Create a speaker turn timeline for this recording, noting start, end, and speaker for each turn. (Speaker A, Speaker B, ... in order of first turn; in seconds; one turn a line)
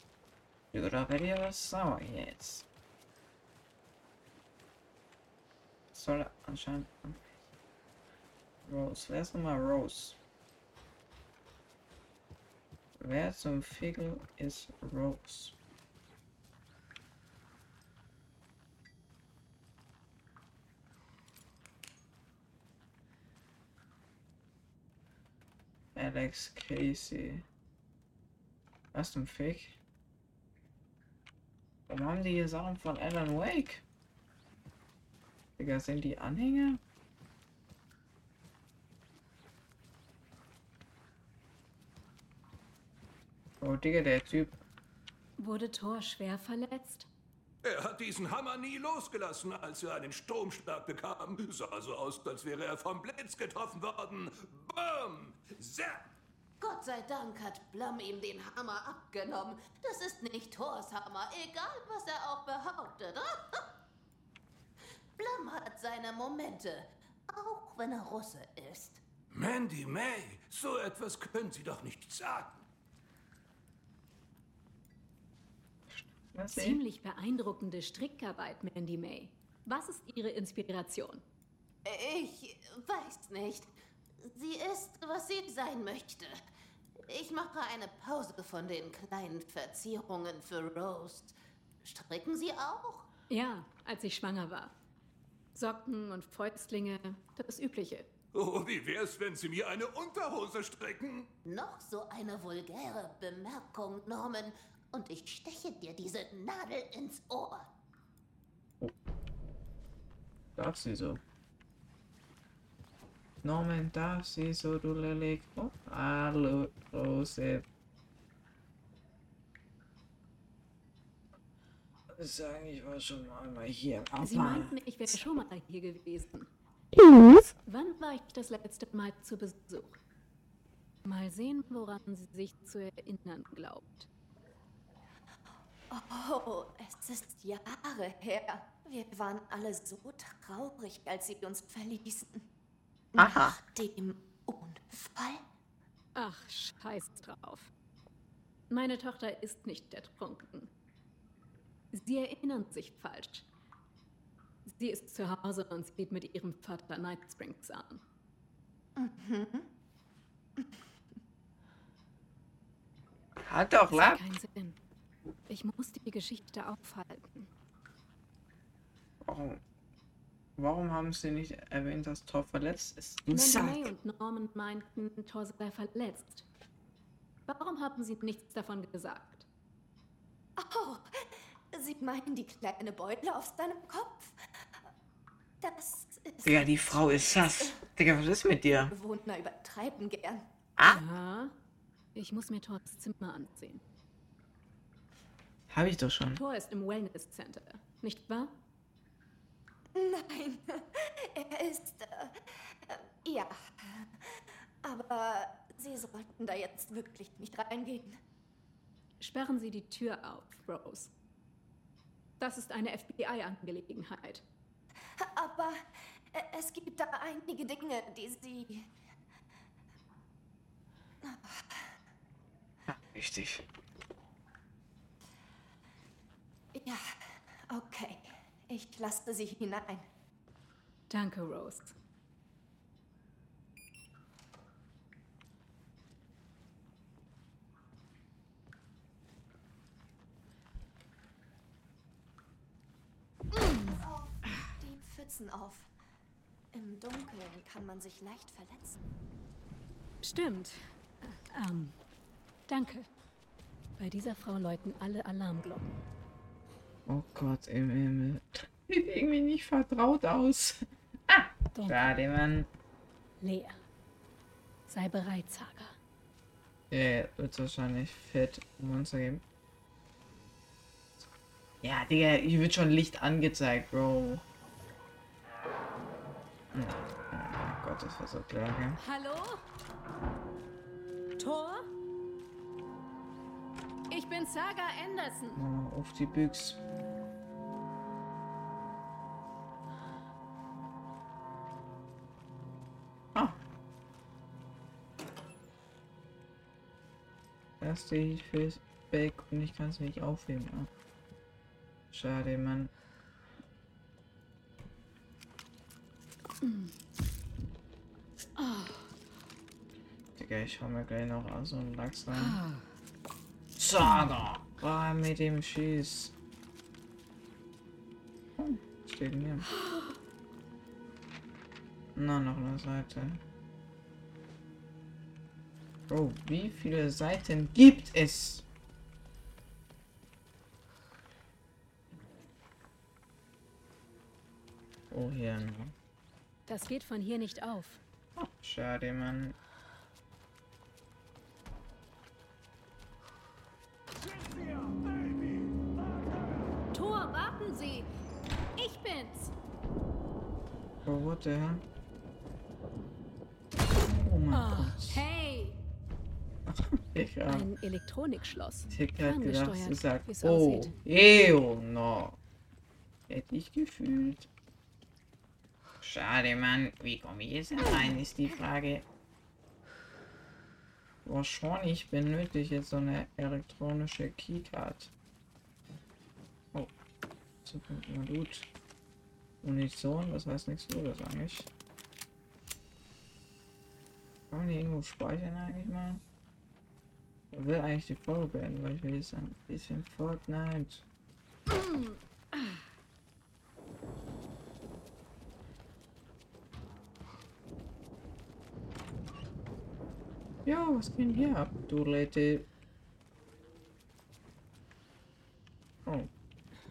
Speaker A: 0.7-2.6
Speaker A: 5.9-7.2
Speaker A: 8.6-10.2
Speaker A: 13.0-15.6
Speaker A: 25.9-27.4
Speaker A: 28.9-29.8
Speaker A: 31.9-33.8
Speaker A: 35.6-36.8
Speaker A: 43.6-44.6
Speaker B: 45.4-47.1
Speaker C: 47.6-56.1
Speaker D: 56.6-63.7
Speaker D: 65.2-69.0
Speaker C: 69.3-72.6
Speaker A: 75.9-76.8
Speaker B: 76.5-81.2
Speaker D: 81.8-86.4
Speaker D: 87.1-93.1
Speaker B: 93.3-94.7
Speaker B: 95.5-98.1
Speaker C: 98.3-101.3
Speaker D: 101.4-107.7
Speaker A: 110.5-111.2
Speaker A: 113.4-117.6
Speaker A: 122.1-125.3
Speaker B: 124.2-126.5
Speaker A: 127.0-127.4
Speaker B: 127.6-130.0
Speaker B: 131.0-134.1
Speaker E: 135.9-142.4
Speaker E: 143.1-145.4
Speaker A: 143.2-143.6
Speaker B: 146.1-147.7
Speaker B: 148.7-150.7
Speaker B: 151.9-153.4
Speaker B: 154.7-158.0
Speaker E: 159.0-159.7
Speaker A: 163.4-164.2
Speaker B: 163.9-164.8
Speaker B: 165.5-167.5
Speaker A: 169.2-169.6
Speaker A: 170.6-173.9
Speaker B: 173.3-176.5
Speaker B: 177.5-179.5
Speaker E: 180.6-184.8
Speaker E: 185.6-187.8
Speaker A: 186.4-188.9
Speaker E: 188.9-190.5
Speaker A: 190.8-191.0
Speaker B: 190.8-191.5
Speaker B: 192.1-193.8
Speaker A: 195.7-196.4
Speaker B: 196.3-198.5
Speaker E: 199.9-208.2
Speaker B: 209.2-211.1
Speaker B: 212.4-214.4
Speaker E: 215.2-218.9
Speaker E: 221.2-221.9
Speaker A: 222.9-223.6
Speaker E: 226.7-230.1
Speaker B: 231.1-231.9
Speaker B: 243.6-243.8
Speaker E: 243.7-245.9
Speaker E: 246.7-249.0
Speaker B: 250.2-252.0
Speaker B: 252.7-253.1
Speaker B: 254.0-256.0
Speaker A: 257.1-262.7
Speaker B: 261.7-262.1
Speaker B: 263.4-263.8
Speaker B: 264.9-266.0
Speaker A: 266.9-269.4
Speaker A: 271.8-274.4
Speaker A: 276.7-279.0
Speaker B: 279.0-279.6
Speaker B: 281.4-281.9
Speaker B: 284.1-285.6
Speaker A: 285.6-286.8
Speaker A: 297.8-300.9
Speaker A: 302.1-302.9
Speaker B: 306.6-306.9
Speaker B: 308.6-309.1
Speaker A: 310.4-312.6
Speaker B: 312.4-312.8
Speaker A: 313.8-316.3
Speaker A: 318.6-319.7
Speaker A: 322.1-323.4
Speaker A: 326.1-328.6
Speaker A: 335.1-335.9
Speaker B: 336.7-338.0
Speaker A: 338.4-339.6
Speaker B: 346.9-348.1
Speaker B: 348.8-349.5
Speaker A: 351.0-351.8
Speaker A: 354.0-355.2
Speaker B: 354.5-355.8
Speaker A: 356.7-357.7
Speaker B: 357.5-361.0
Speaker A: 358.9-362.4
Speaker A: 363.3-364.5
Speaker A: 366.0-369.0
Speaker A: 371.2-375.1
Speaker A: 377.6-378.7
Speaker A: 379.6-381.7
Speaker A: 384.5-386.2
Speaker A: 387.5-391.0
Speaker B: 391.7-392.8
Speaker A: 400.6-402.7